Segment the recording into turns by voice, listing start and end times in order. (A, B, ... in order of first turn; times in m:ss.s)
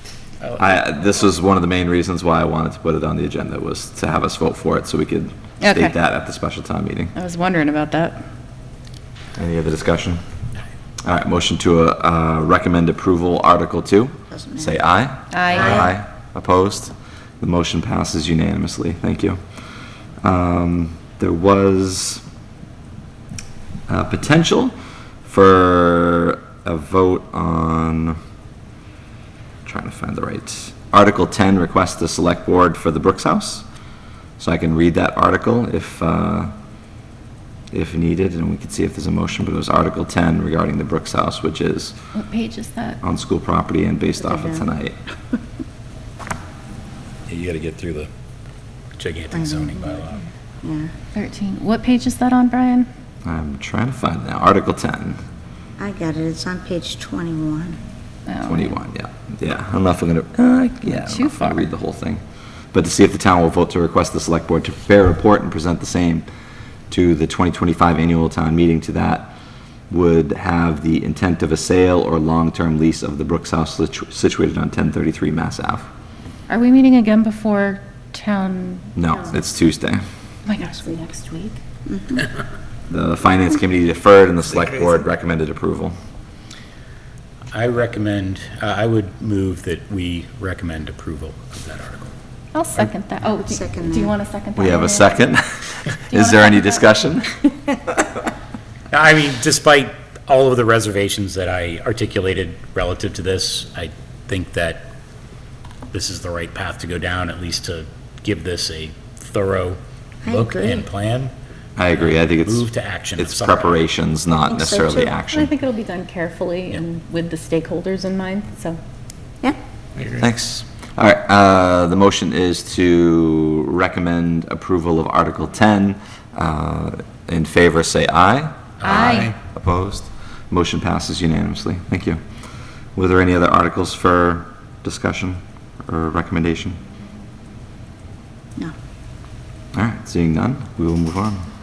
0:00.4-0:00.8 A
0:00.6-0:07.1 B
0:05.6-0:06.0 C
0:07.1-0:08.2 C
0:09.4-0:10.2 B
0:11.0-0:19.4 B
0:14.3-0:14.8 D
0:15.3-0:15.9 C
0:20.2-0:22.2 B
0:23.9-0:28.2 B
0:29.6-0:33.6 B
0:34.4-0:36.5 B
0:37.7-0:42.0 B
0:42.1-0:43.0 C
0:43.0-0:45.0 B
0:44.2-0:44.7 D
0:47.3-0:48.1 A
0:49.0-0:50.2 A
0:49.3-0:50.0 D
0:50.6-0:50.9 D
0:51.1-0:52.9 C
0:53.2-0:55.2 B
0:55.8-0:57.8 D
0:58.2-0:58.8 C
0:58.4-1:02.2 B
1:00.8-1:01.6 C
1:02.7-1:06.3 B
1:06.9-1:09.3 B
1:09.9-1:15.9 B
1:16.5-1:19.4 C
1:19.0-1:20.0 B
1:20.4-1:21.6 C
1:21.9-1:22.2 D
1:22.9-1:26.0 B
1:27.5-1:32.1 A
1:32.5-1:35.4 C
1:33.4-1:34.1 D
1:34.5-1:37.3 B
1:36.1-1:36.9 C
1:38.9-1:44.9 A
1:45.9-1:51.3 A
1:50.2-1:50.9 D
1:51.8-1:55.5 B
1:51.9-1:53.9 A
1:54.5-1:55.2 D
1:55.3-1:58.8 C
2:00.2-2:12.2 B
2:08.8-2:09.3 A
2:08.8-2:09.3 C
2:12.9-2:16.8 B
2:19.7-2:21.5 B